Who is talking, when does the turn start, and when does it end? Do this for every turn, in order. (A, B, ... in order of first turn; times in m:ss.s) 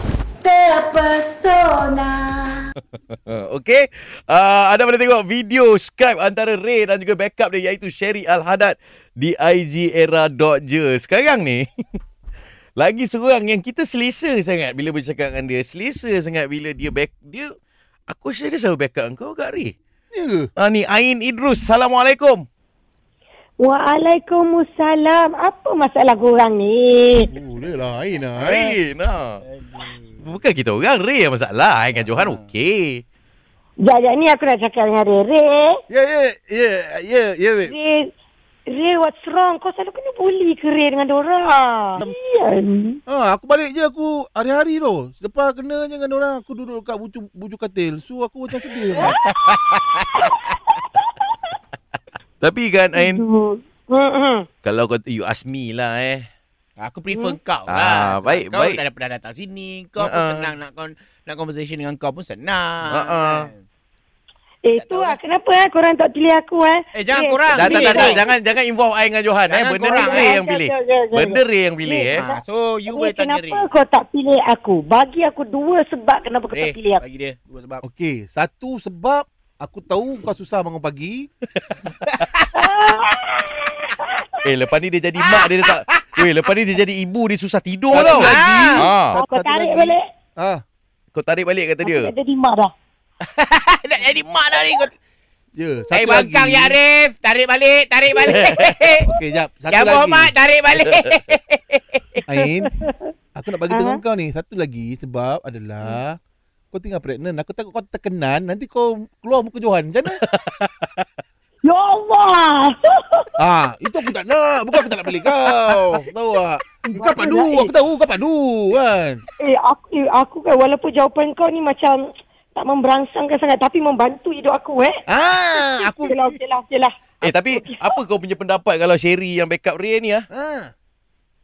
0:00.4-0:02.7 A
0:03.1-0:11.7 B
0:12.8-0:17.5 B
0:18.1-0:19.7 B
0:20.1-0:20.5 C
0:20.6-0:22.4 B
0:23.6-0:27.3 D
0:27.3-0:28.8 C
0:28.4-0:29.4 B
0:29.4-0:30.2 E
0:30.2-0:33.0 B
0:32.0-0:32.4 E
0:33.8-0:35.8 D
0:35.9-0:37.7 C
0:37.7-0:38.1 D
0:38.7-0:43.0 D
0:43.1-0:49.2 C
0:49.0-0:50.3 E
0:51.0-0:51.3 D
0:52.4-0:53.2 B
0:53.0-0:54.5 D
0:54.6-0:56.3 B
0:56.8-1:03.6 E
0:57.7-0:58.8 B
1:00.0-1:00.5 B
1:02.9-1:03.5 B
1:04.6-1:08.2 D
1:04.7-1:05.2 E
1:07.0-1:08.2 E
1:07.6-1:12.3 B
1:09.5-1:10.4 E
1:09.9-1:17.0 D
1:12.1-1:13.7 E
1:16.5-1:17.8 E
1:17.8-1:21.3 C
1:22.1-1:22.4 E
1:22.5-1:24.4 D
1:24.4-1:29.2 B
1:25.2-1:26.1 E
1:27.9-1:28.9 E
1:27.9-1:30.6 C
1:29.1-1:30.0 D
1:31.1-1:32.1 B
1:31.8-1:32.7 D
1:33.2-1:35.0 E
1:35.6-1:36.8 C
1:35.9-1:39.0 E
1:38.3-1:38.7 B
1:39.0-1:40.3 C
1:39.7-1:42.2 E
1:42.3-1:42.7 C
1:42.4-1:43.1 D
1:43.4-1:46.2 C
1:43.7-1:44.0 D
1:46.7-1:50.2 C
1:50.2-1:50.9 B
1:51.6-1:53.3 D
1:53.4-1:59.2 C
1:56.8-1:57.7 D
1:59.4-2:05.0 D
2:05.1-2:06.2 C
2:05.5-2:07.8 D
2:07.2-2:10.3 B
2:10.3-2:10.7 C